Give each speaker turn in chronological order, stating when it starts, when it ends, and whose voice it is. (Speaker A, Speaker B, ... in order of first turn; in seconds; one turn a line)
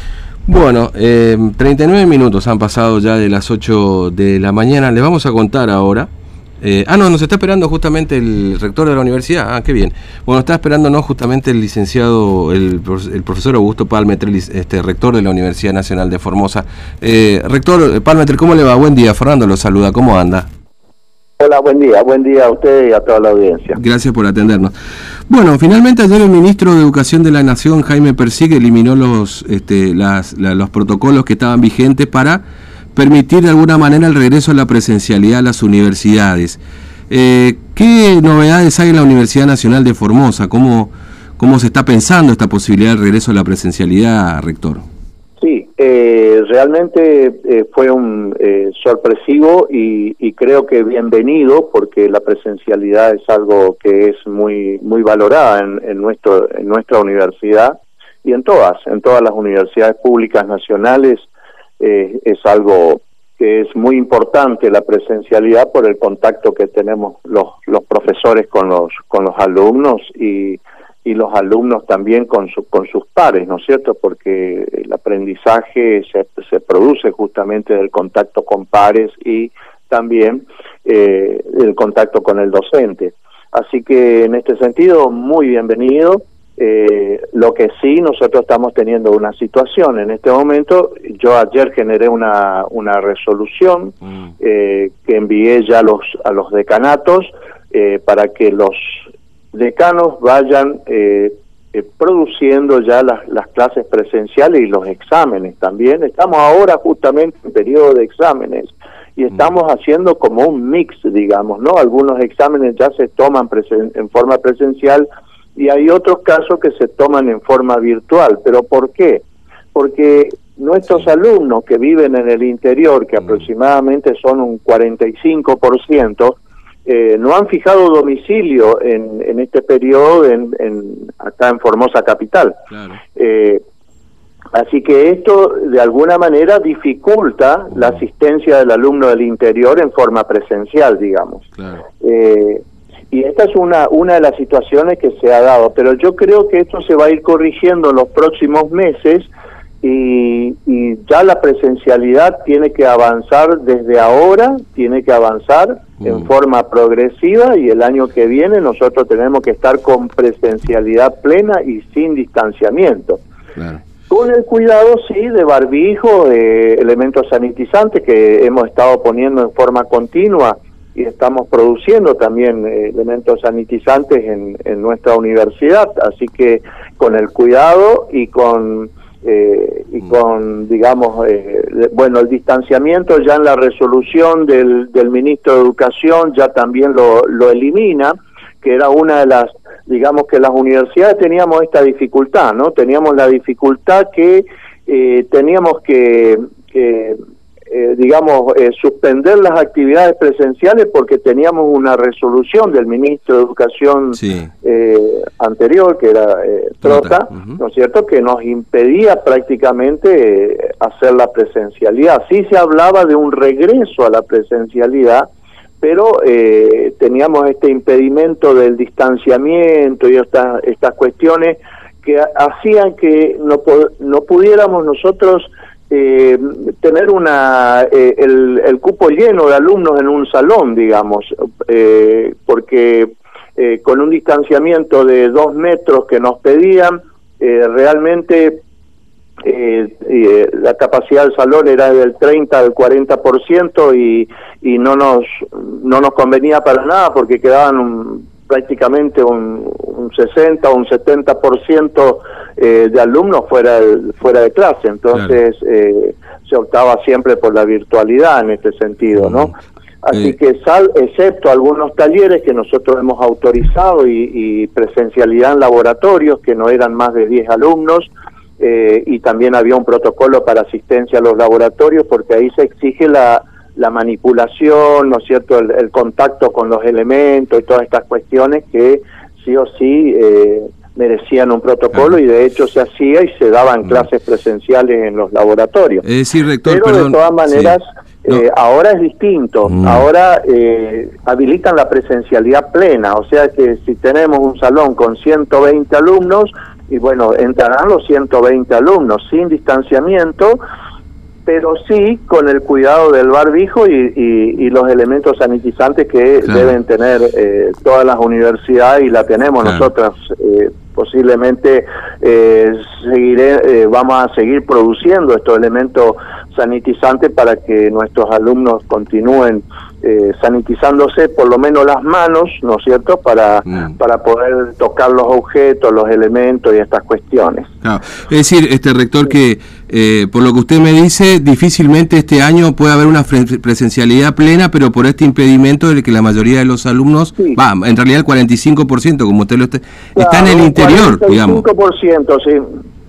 Speaker A: 0.5-6.1
Speaker A: 6.6-20.5
Speaker B: 21.4-23.8
Speaker A: 23.7-24.7
Speaker A: 25.3-32.4
Speaker A: 32.9-44.8
Speaker B: 45.4-61.3
Speaker B: 61.8-132.6
Speaker A: 132.7-133.0
Speaker B: 133.1-133.6
Speaker B: 134.5-141.5
Speaker A: 141.6-141.8
Speaker B: 142.0-149.3
Speaker B: 149.8-163.2
Speaker A: 163.6-163.8
Speaker B: 164.1-215.3
Speaker A: 204.2-204.5
Speaker A: 206.8-207.6
Speaker B: 215.8-238.6
Speaker B: 239.4-259.5
Speaker B: 260.0-286.0
Speaker A: 286.0-287.8
Speaker B: 286.6-300.6
Speaker A: 289.7-290.0
Speaker B: 301.4-327.7
Speaker A: 327.8-341.6
Speaker B: 340.1-342.6